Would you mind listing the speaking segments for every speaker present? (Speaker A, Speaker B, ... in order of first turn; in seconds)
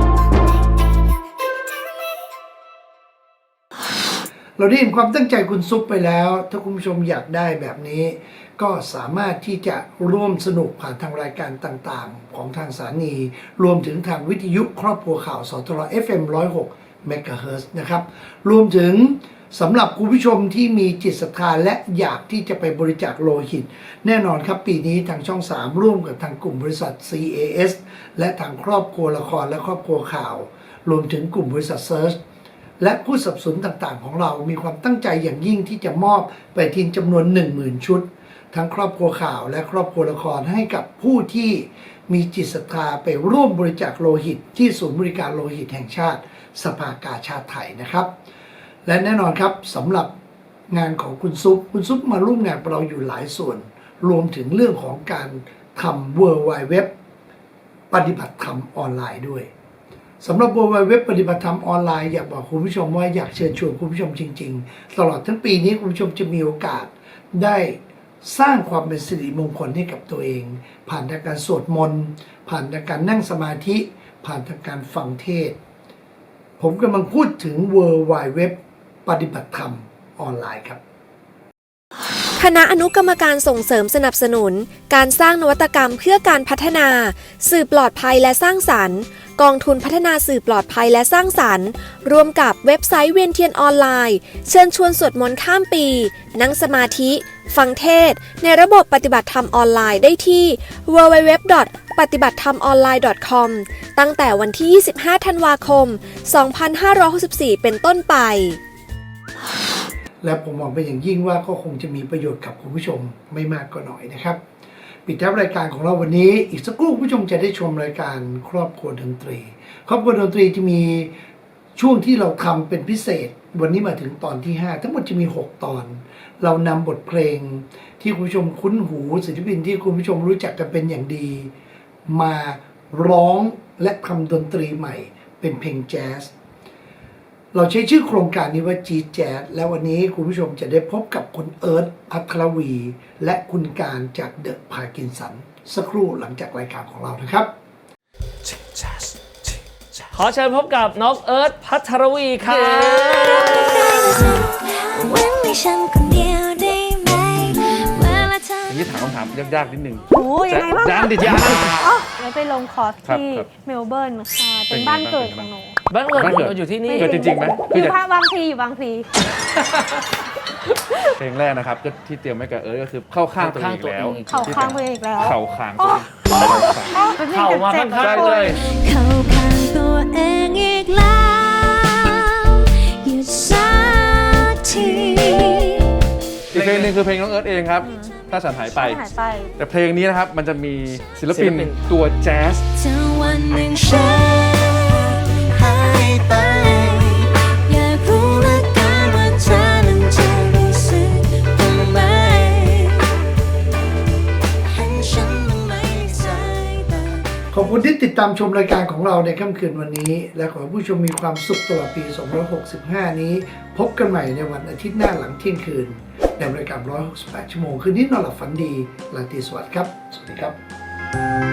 Speaker A: 4.6-32.2, 32.8-48.1, 48.8-50.1, 50.7-56.9, 57.9-59.5, 60.2-75.6, 76.6-80.8, 110.2-114.4, 115.0-121.1, 121.8-131.5, 132.1-136.3, 137.5-147.5, 207.5-220.6
Speaker B: 82.3-108.6
Speaker C: 150.1-154.1, 161.2-161.7, 165.9-167.1, 173.3-174.8, 176.4-176.7, 177.2-178.5, 186.6-186.9, 191.3-191.8
Speaker D: 152.7-158.8, 178.6-185.9, 192.8-203.3, 204.6-207.2
Speaker E: 158.7-161.8, 163.0-163.5, 164.7-165.5, 166.1-168.0, 171.2-177.1, 178.0-178.6, 186.5-189.1, 189.6-192.7
Speaker F: 160.1-165.8, 166.8-169.1, 174.2-178.6, 187.8-188.2, 188.7-189.5